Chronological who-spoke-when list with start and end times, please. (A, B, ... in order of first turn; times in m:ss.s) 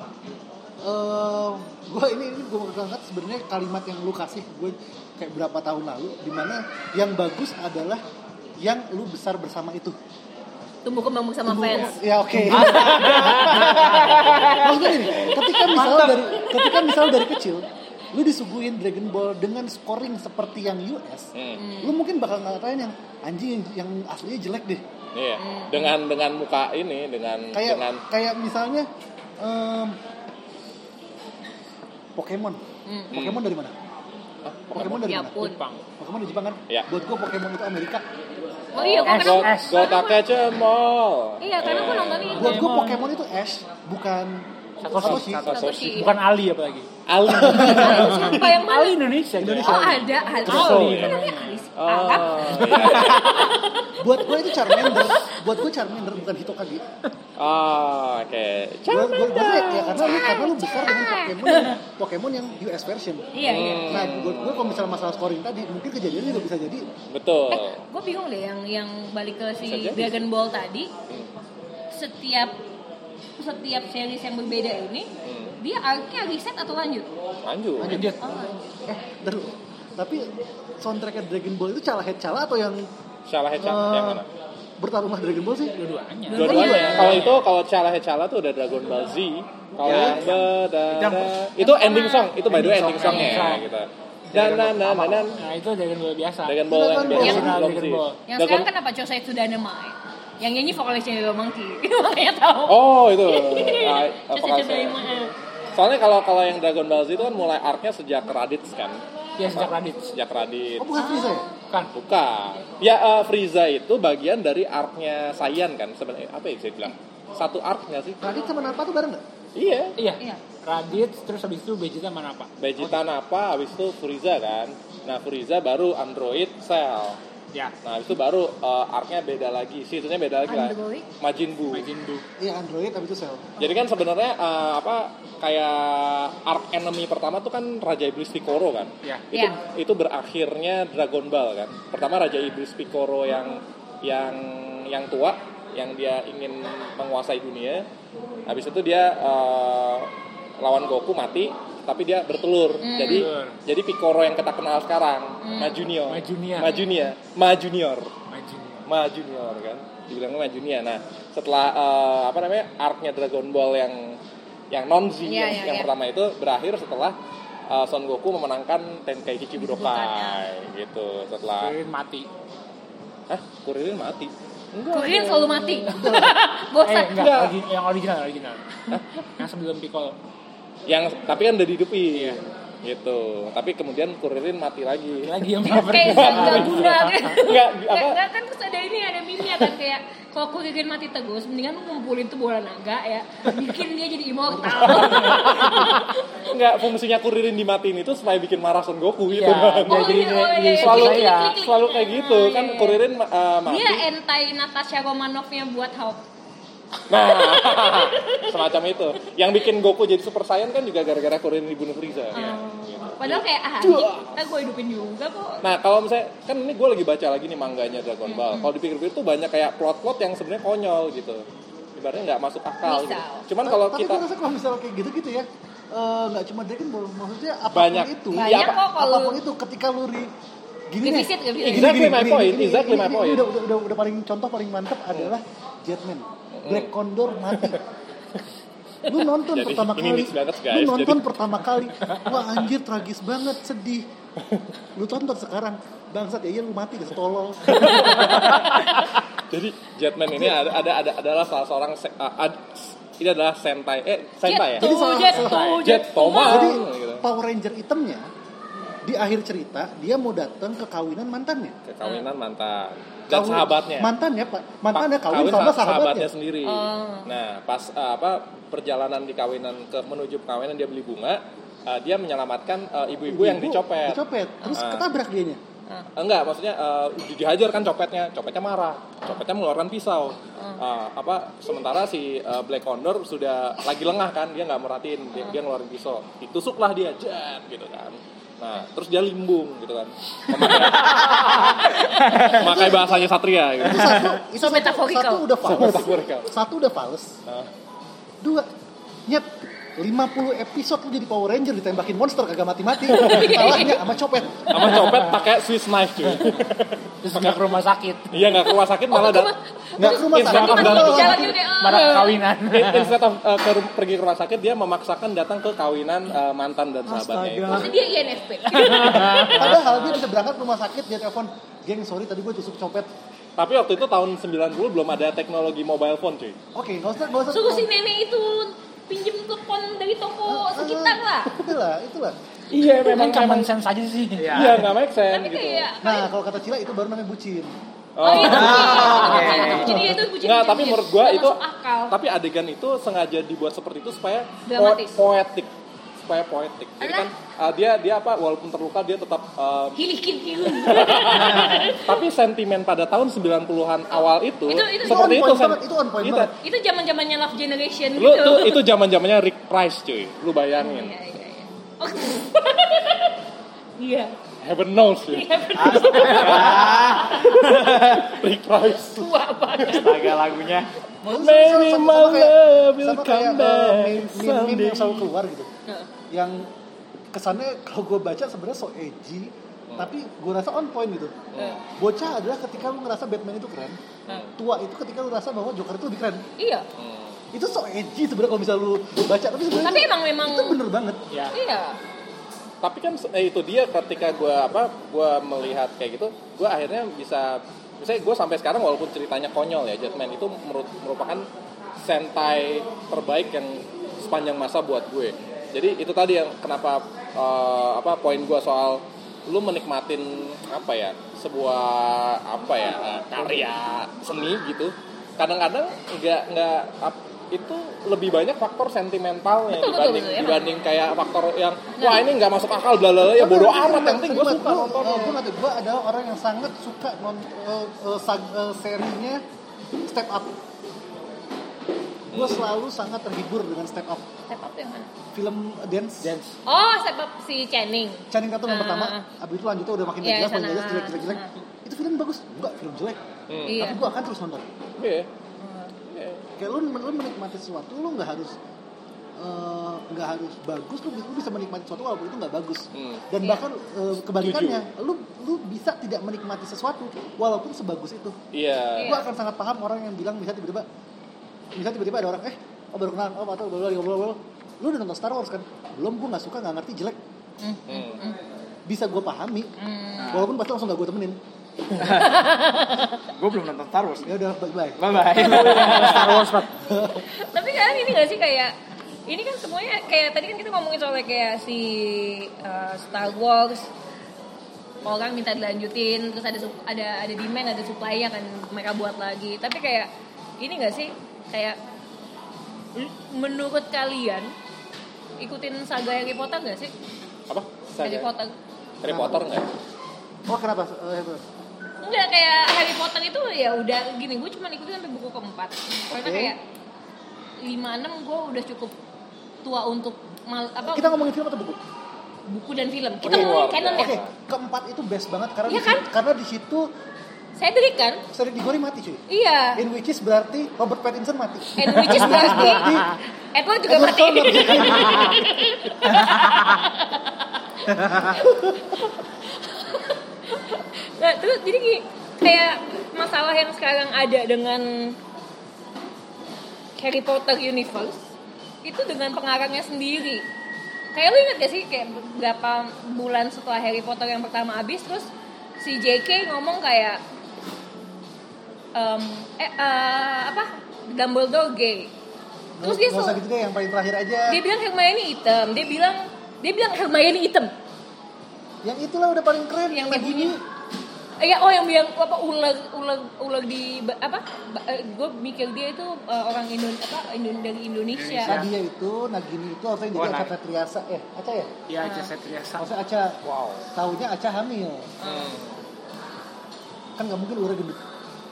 0:00.8-0:08.0 A
0:08.6-0:10.0 A
0:10.8-0:12.0 B
0:11.4-0:24.8 A
0:12.5-0:13.6 C
0:12.8-0:13.4 D
0:15.2-0:15.6 B
0:15.7-0:16.2 D
0:21.3-0:21.6 E
0:21.6-0:21.9 B
0:25.1-0:28.0 E
0:25.4-0:25.9 B
0:27.5-0:28.9 A
0:29.4-0:30.0 A
0:32.2-0:33.7 A
0:32.8-0:33.1 B
0:33.1-0:33.4 E
0:34.4-0:35.0 E
0:34.7-0:35.4 A
0:35.0-0:35.6 B
0:35.3-0:35.8 C
0:36.0-0:38.0 A
0:38.7-0:40.2 B
0:38.7-0:42.4 E
0:39.0-0:39.9 C
0:41.4-0:42.7 B
0:42.4-0:45.4 A
0:42.4-0:43.0 C
0:44.8-0:46.9 C
0:45.0-0:46.0 E
0:45.4-0:46.2 B
0:47.1-0:48.4 E
0:47.3-0:48.2 A
0:47.7-0:49.0 B
0:47.7-0:51.6 C
0:49.4-0:50.1 A
0:49.6-0:55.4 B
0:50.4-0:51.2 E
0:51.8-0:53.3 E
0:52.4-0:53.5 C
0:54.0-0:56.8 A
0:57.4-1:00.0 E
0:58.9-1:06.9 A
0:59.2-1:01.8 B
1:03.3-1:04.0 B
1:03.4-1:04.8 E
1:07.1-1:07.8 E
1:07.5-1:10.9 B
1:09.6-1:10.2 E
1:11.9-1:12.6 B
1:13.4-1:17.1 B
1:15.2-1:15.5 E
1:17.4-1:18.0 E
1:17.8-1:18.2 A
1:17.9-1:18.2 C
1:18.2-1:18.6 B
1:18.8-1:22.9 A
1:23.3-1:24.3 E
1:23.6-1:24.2 A
1:24.8-1:25.7 A
1:25.8-1:27.4 C
1:26.3-1:27.2 B
1:26.3-1:35.4 E
1:26.5-1:27.2 A
1:29.8-1:31.3 D
1:31.6-1:33.4 B
1:32.5-1:33.7 C
1:32.5-1:33.5 D
1:34.3-1:35.4 D
1:35.3-1:38.2 C
1:36.4-1:38.7 E
1:36.7-1:37.6 A
1:37.2-1:37.5 B
1:38.3-1:45.3 B
1:42.7-1:45.0 E
1:45.7-1:50.9 E
1:49.4-1:50.1 C
1:50.8-1:51.5 A
1:51.0-1:51.5 B
1:51.9-1:58.2 E
1:58.2-1:59.2 A
1:59.6-2:00.0 E
2:00.0-2:02.5 C
2:00.2-2:00.4 B
2:02.6-2:07.2 E
2:07.8-2:11.9 E
2:10.5-2:11.1 B
2:11.7-2:12.2 C
2:12.4-2:13.6 A
2:13.6-2:27.9 E
2:19.3-2:19.6 B
2:28.4-2:38.1 E
2:32.8-2:33.3 B
2:33.1-2:33.6 C
2:35.4-2:35.8 B
2:36.1-2:36.8 C
2:38.3-2:38.8 C
2:38.8-2:44.2 E
2:44.7-2:47.2 E
2:45.2-2:45.9 B
2:47.7-2:51.7 E
2:49.6-2:50.4 B
2:51.6-2:52.3 C
2:53.3-2:55.8 E
2:54.9-2:57.2 B
2:55.9-2:56.4 A
2:56.8-3:00.2 C
2:57.2-2:57.6 E
3:00.9-3:08.2 E
3:02.1-3:02.4 C
3:05.2-3:07.3 C
3:05.7-3:16.4 B
3:14.8-3:24.0 E
3:19.3-3:21.6 C
3:19.8-3:23.0 B
3:23.6-3:26.2 B
3:27.1-3:34.3 E
3:27.2-3:28.7 B
3:32.3-3:35.6 B
3:35.6-3:41.4 E
3:38.2-3:38.7 B
3:42.0-3:44.2 E
3:42.8-3:43.4 B
3:43.6-3:50.3 A
3:47.7-3:48.8 E
3:48.3-3:49.4 B
3:50.9-3:57.8 A
3:51.0-3:52.0 B
3:51.6-3:53.5 E
3:56.5-3:56.9 E
3:59.1-4:04.0 A
3:59.5-4:01.3 E
4:04.9-4:08.3 A
4:07.7-4:14.9 E
4:07.8-4:08.8 B
4:14.4-4:16.8 B
4:14.8-4:15.8 A
4:15.4-4:15.8 C
4:15.8-4:17.2 E
4:16.4-4:18.3 A
4:19.0-4:21.8 A
4:21.8-4:24.1 E
4:23.3-4:26.3 A
4:24.9-4:34.2 E
4:26.6-4:27.3 B
4:33.3-4:35.6 A
4:34.7-4:35.0 E
4:36.2-4:54.4 E
4:52.3-4:57.4 A
4:54.6-4:55.4 B
4:55.6-4:56.5 E
4:58.4-4:58.7 A
4:59.3-5:04.9 A
5:03.1-5:04.0 B
5:03.2-5:03.7 E
5:04.7-5:07.7 E
5:07.2-5:08.4 C
5:08.3-5:11.3 E
5:09.1-5:12.4 B
5:10.0-5:11.6 A
5:10.4-5:13.2 C
5:11.9-5:17.9 E
5:17.2-5:17.8 A
5:17.7-5:19.8 B
5:18.7-5:19.9 C
5:19.5-5:23.1 A
5:23.6-5:26.6 E
5:26.7-5:27.9 A
5:27.5-5:31.6 B
5:30.5-5:32.4 A
5:32.7-5:34.9 C
5:32.8-5:33.7 E
5:34.4-5:34.8 D
5:34.5-5:35.9 E
5:35.3-5:36.3 B
5:36.0-5:37.8 A
5:38.2-5:50.0 E
5:38.2-5:42.1 B
5:38.4-5:40.0 D
5:39.8-5:40.2 A
5:44.6-5:45.2 B
5:47.0-5:47.3 B
5:50.0-5:52.1 B
5:50.6-5:56.5 E
5:54.7-5:55.4 B
5:55.0-5:56.5 A
5:56.6-5:58.8 B
5:58.2-6:01.1 E
6:00.8-6:03.4 B
6:04.0-6:04.3 B
6:04.6-6:09.3 E
6:05.3-6:07.2 B
6:05.7-6:08.3 D
6:09.1-6:10.4 B
6:09.8-6:10.2 E
6:09.8-6:10.9 D
6:11.2-6:15.7 A
6:11.3-6:15.3 E
6:16.3-6:16.7 A
6:17.3-6:24.0 A
6:21.5-6:21.8 E
6:21.6-6:21.8 B
6:24.6-6:26.4 A
6:26.6-6:26.8 B
6:27.0-6:27.4 E
6:27.5-6:31.2 A
6:29.7-6:30.8 B
6:31.3-6:31.5 C
6:31.5-6:32.0 B
6:32.8-6:41.4 E
6:42.0-7:05.4 E
6:59.7-7:00.6 B
7:02.0-7:02.2 B
7:03.3-7:09.4 A
7:10.0-7:10.5 A
7:12.3-7:12.6 E
7:12.3-7:14.2 A
7:14.5-7:15.1 B
7:15.3-7:16.4 A
7:16.2-7:16.5 C
7:16.6-7:19.2 B
7:18.3-7:24.6 A
7:20.2-7:21.5 B
7:23.5-7:23.8 E
7:23.6-7:24.0 B
7:25.0-7:25.3 E
7:25.6-7:25.9 B
7:26.0-7:26.5 E
7:26.6-7:28.5 A
7:29.4-7:38.4 A
7:32.9-7:33.2 E
7:34.4-7:34.8 E
7:38.5-7:39.2 E
7:39.0-7:39.2 B
7:39.0-7:40.8 A
7:41.7-7:47.2 A
7:47.6-7:48.4 B
7:47.9-7:48.2 E
7:48.8-7:49.7 A
7:49.8-7:50.4 B
7:50.2-7:50.5 D
7:50.3-7:51.4 A
7:52.0-7:52.6 D
7:52.2-7:53.2 B
7:53.2-7:54.3 D
7:54.3-7:56.0 A
7:55.0-7:56.6 D
7:55.4-7:56.7 C
7:56.7-7:57.2 A
7:57.2-7:58.7 B
7:59.3-8:03.9 B
8:05.0-8:11.8 B
8:12.9-8:14.5 B
8:15.4-8:16.9 B
8:17.5-8:18.3 E
8:18.0-8:18.5 B
8:19.0-8:19.7 E
8:19.0-8:19.6 A
8:20.5-8:21.4 A
8:22.0-8:26.6 B
8:26.1-8:26.5 A
8:27.6-8:28.9 B
8:29.6-8:31.2 B
8:30.8-8:31.8 A
8:32.5-8:34.2 B
8:33.2-8:34.3 E
8:33.2-8:36.9 A
8:35.7-8:36.0 B
8:37.6-8:38.2 B
8:38.3-8:39.2 A
8:39.3-8:39.8 B
8:39.7-8:43.2 A
8:41.8-8:55.2 B
8:43.8-8:45.4 A
8:48.1-8:48.7 A
8:57.0-8:58.3 B
8:58.8-9:00.4 B
9:01.1-9:07.2 B
9:08.9-9:12.1 B
9:12.8-9:14.6 A
9:12.8-9:13.4 B
9:14.5-9:17.7 B
9:18.8-9:20.6 A
9:19.9-9:20.6 B
9:21.4-9:28.6 B
9:28.1-9:28.7 C
9:28.4-9:31.7 A
9:31.9-9:32.8 C
9:32.0-9:32.3 B
9:32.8-9:33.4 A
9:33.4-9:33.9 E
9:33.9-9:35.1 A
9:35.2-9:35.5 B
9:35.2-9:35.8 E
9:37.2-9:38.0 A